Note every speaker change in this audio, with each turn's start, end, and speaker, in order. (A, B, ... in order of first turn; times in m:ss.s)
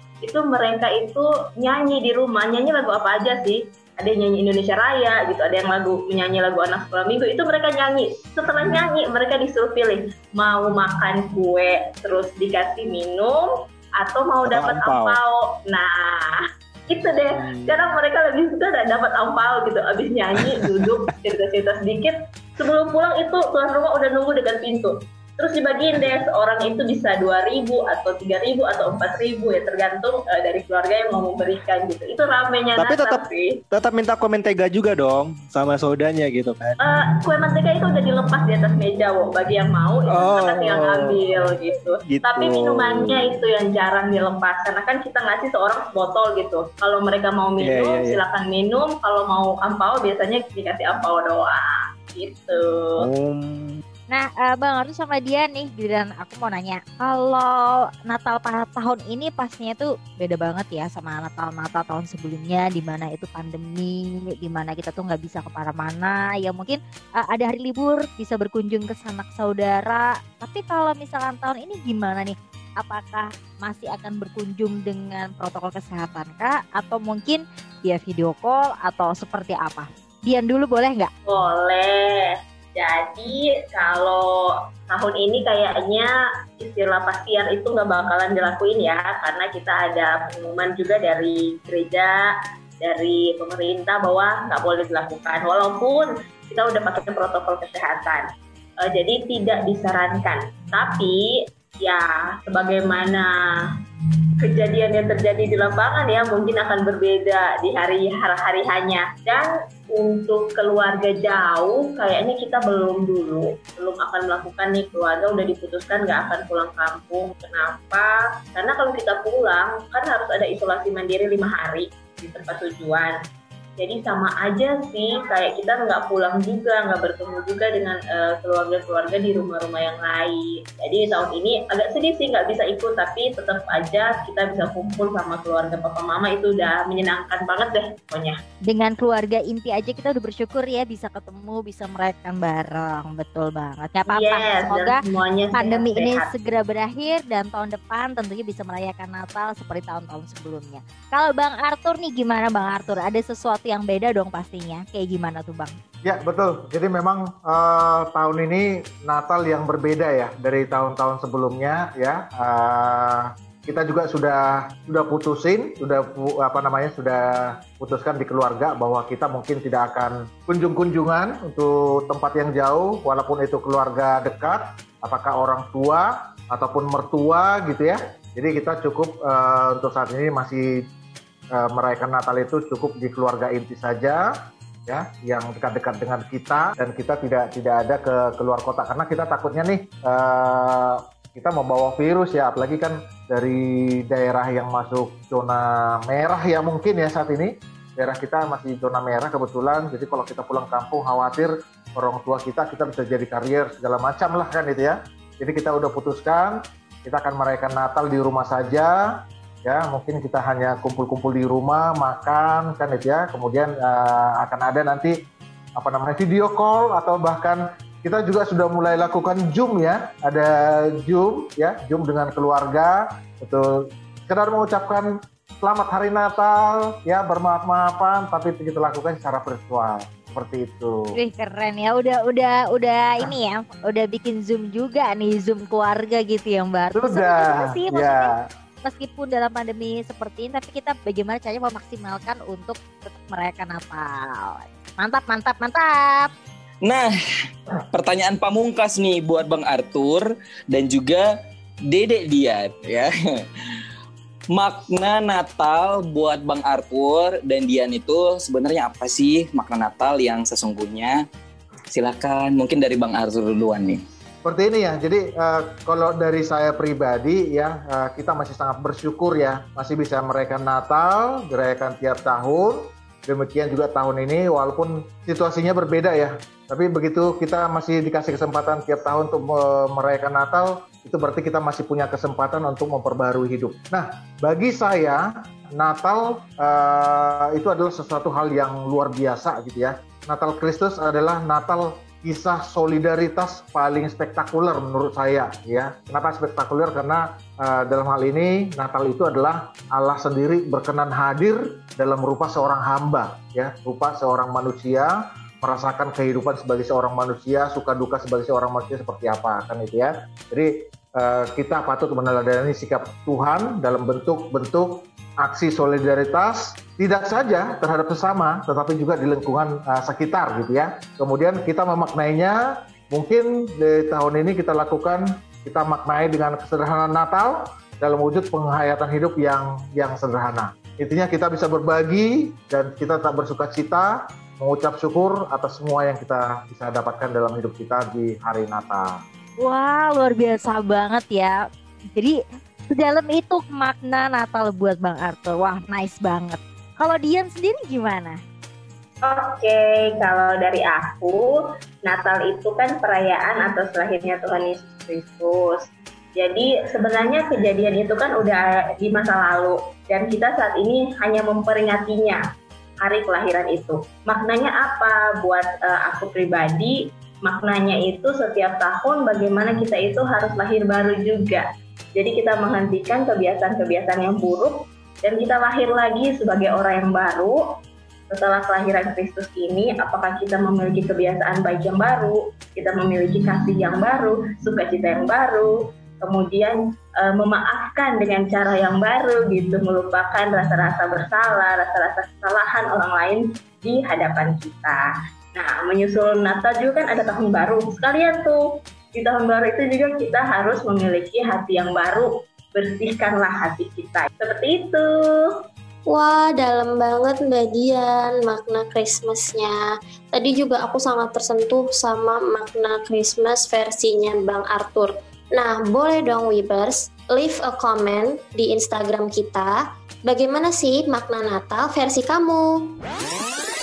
0:00.2-0:33.6 A
0:14.4-0:15.2 B
0:17.4-0:17.8 B
0:20.4-0:20.9 B
0:32.8-0:36.8 B
0:36.8-0:53.0 A
0:40.1-0:41.4 B
0:42.0-0:43.4 B
0:47.6-0:48.2 B
0:53.0-0:53.8 B
0:54.1-1:21.1 C
1:21.3-1:38.3 A
1:38.8-1:43.3 A
1:44.4-2:03.2 A
2:03.8-2:18.4 A
2:18.7-2:25.0 C
2:24.1-2:26.3 A
2:25.5-2:35.7 C
2:36.0-3:00.7 D
3:01.5-3:04.3 D
3:04.9-3:29.0 D
3:29.6-3:35.2 D
3:35.8-3:43.7 D
3:44.2-3:45.1 D
3:45.6-3:51.1 D
3:51.2-3:58.3 C
3:56.9-3:58.4 D
3:58.8-4:06.3 C
4:07.9-4:11.3 E
4:11.9-4:13.4 E
4:14.5-4:21.2 E
4:21.9-4:24.0 E
4:24.4-5:22.6 D
5:23.1-5:39.2 D
5:39.6-5:41.6 C
5:42.9-5:48.4 C
5:49.2-6:02.4 A
6:03.0-6:17.6 A
6:18.3-6:38.6 A
6:39.1-6:45.5 A
6:46.1-6:49.7 F
6:50.3-6:59.7 F
7:00.3-7:02.6 F